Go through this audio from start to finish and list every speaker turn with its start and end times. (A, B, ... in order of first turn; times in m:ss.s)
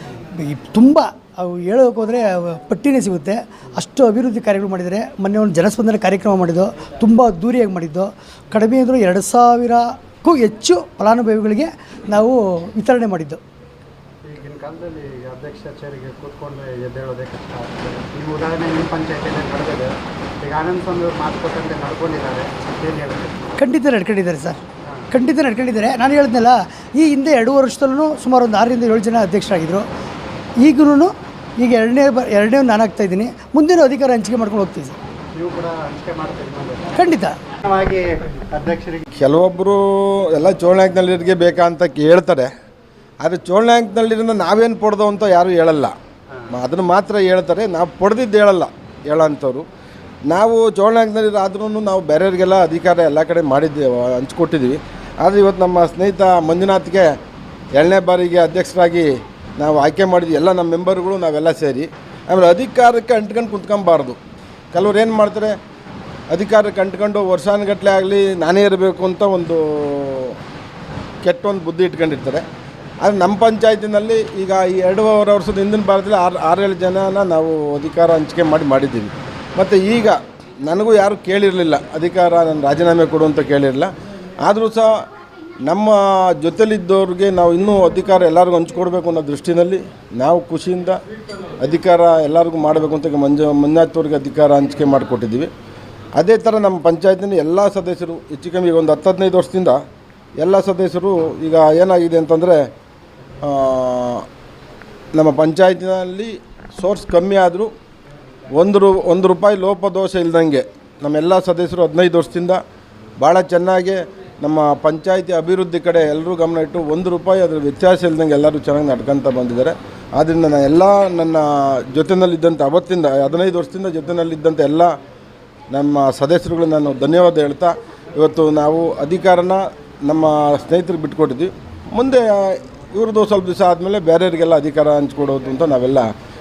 0:00.3-0:13.4 A
0:14.2-0:23.4 B
0:23.6-0:24.6 A
0:25.1-0:29.8 A
0:30.6-0:35.0 A
0:35.3-0:37.0 B
0:37.0-0:37.4 A
0:37.6-0:39.0 B
0:39.2-0:39.8 C
0:40.3-0:42.5 C
0:43.2-0:45.9 C
0:46.5-0:49.6 C
0:50.3-0:57.1 C
0:57.8-0:59.0 C
0:59.6-1:04.2 C
1:04.7-1:05.5 C
1:06.3-1:10.3 C
1:11.2-1:12.4 C
1:13.0-1:23.9 C
1:24.4-1:24.8 C
1:25.7-1:31.0 C
1:31.6-1:35.5 C
1:36.2-1:39.8 C
1:40.4-1:42.6 C
1:43.4-1:44.2 C
1:45.2-1:47.7 C
1:48.5-1:52.6 C
1:53.2-2:04.9 C
2:05.7-2:12.2 C
2:12.9-2:16.0 C